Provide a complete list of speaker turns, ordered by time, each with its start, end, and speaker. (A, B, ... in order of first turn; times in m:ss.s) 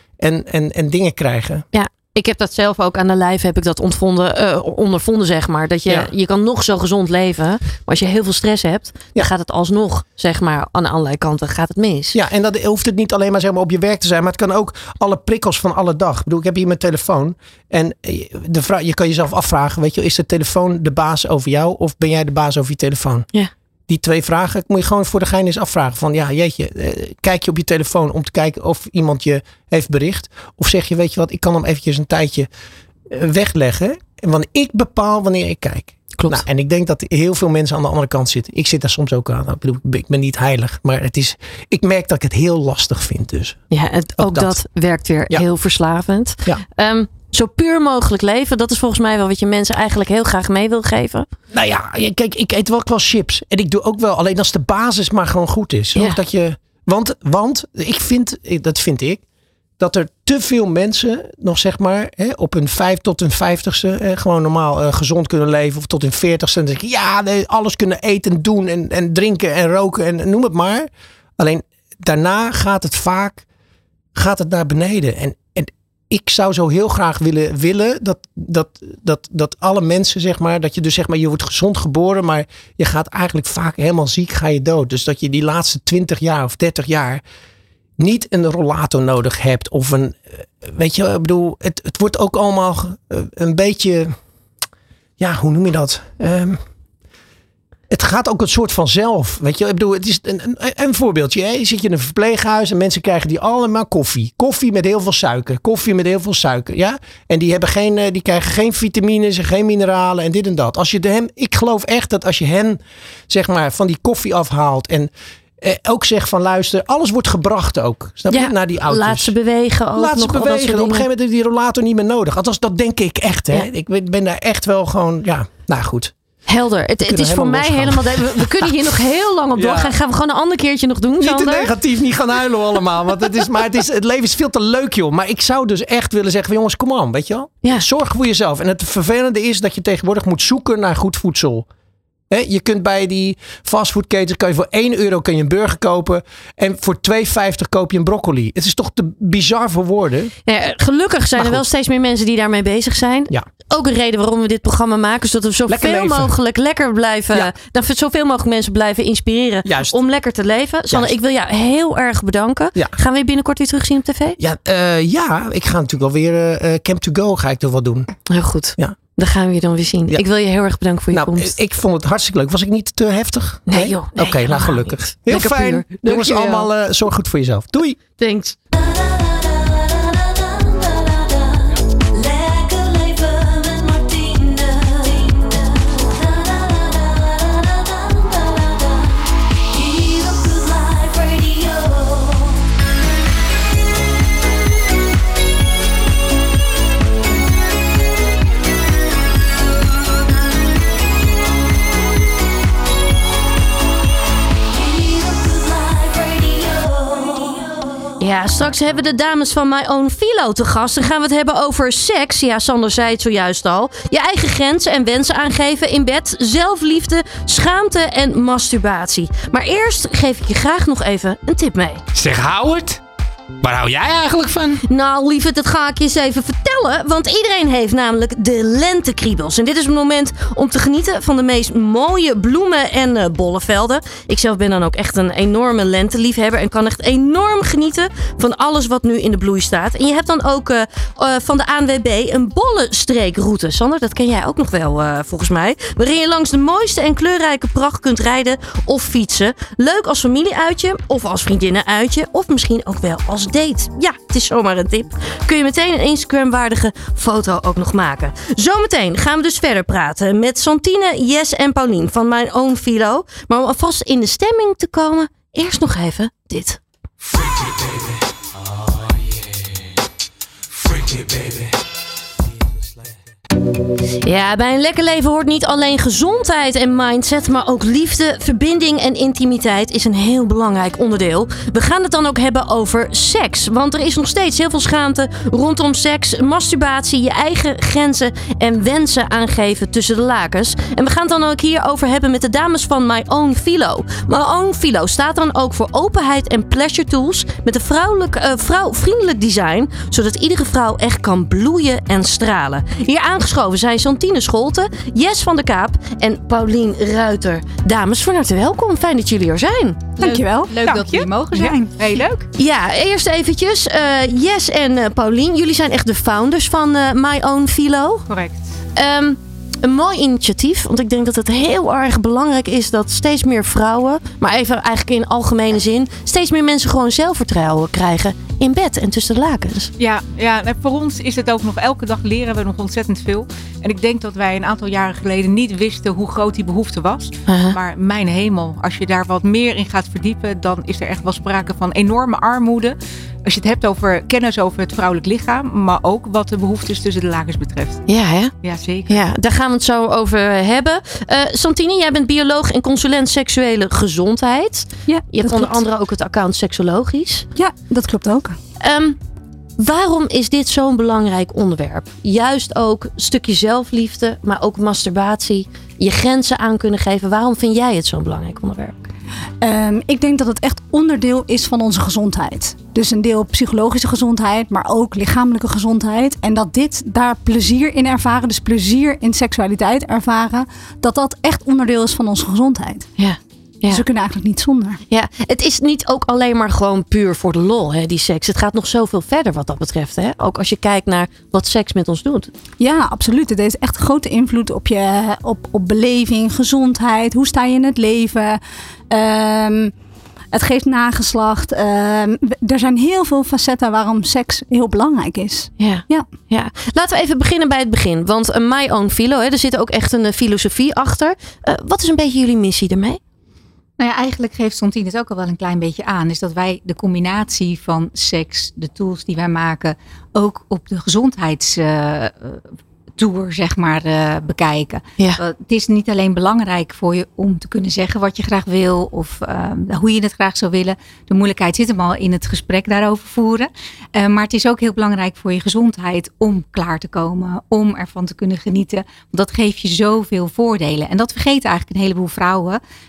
0:00.2-0:01.6 A
0:01.7-0:12.2 B
0:12.1-0:23.3 A
0:23.9-0:32.5 A
0:33.1-0:43.6 A
0:36.2-0:36.4 B
0:43.7-0:51.3 B
0:44.2-0:44.6 A
0:51.5-0:59.2 A
0:59.8-1:13.4 A
1:14.2-1:27.2 A
1:28.0-1:34.2 A
1:35.2-1:36.6 A
1:37.9-1:59.4 A
1:58.3-2:01.1 B
2:00.0-2:06.1 A
2:06.5-2:11.7 B
2:07.0-2:09.0 A
2:09.6-2:10.0 A
2:11.2-2:21.7 A
2:22.3-2:30.3 A
2:30.5-2:44.4 B
2:31.4-2:31.6 A
2:35.7-2:36.3 A
2:39.6-2:40.0 A
2:44.4-2:48.1 A
2:48.3-2:51.6 B
2:51.1-2:58.0 A
2:53.7-2:56.7 B
2:58.2-3:12.6 B
3:24.8-3:42.0 B
3:42.2-3:43.0 C
3:43.6-3:44.8 C
3:44.8-4:26.8 B
4:34.2-5:10.2 B
5:10.2-5:12.3 D
5:10.2-5:10.7 E
5:10.2-5:12.5 F
5:12.6-5:18.2 B
5:18.3-5:18.6 F
5:19.0-5:29.9 B
5:30.0-5:48.0 F
5:37.5-5:37.8 B
5:48.1-5:48.5 B
5:48.6-5:49.2 F
5:49.1-5:57.5 B
5:55.1-5:55.8 E
5:57.6-5:58.6 E
5:58.8-5:59.2 B
5:59.8-6:09.0 B
6:09.6-6:23.1 E
6:23.2-6:24.0 B
6:23.9-6:25.0 E
6:25.1-6:32.5 B
6:32.8-6:39.9 E
6:40.5-6:46.3 E
6:45.8-6:53.2 B
6:54.0-7:02.6 D
7:03.2-7:22.8 D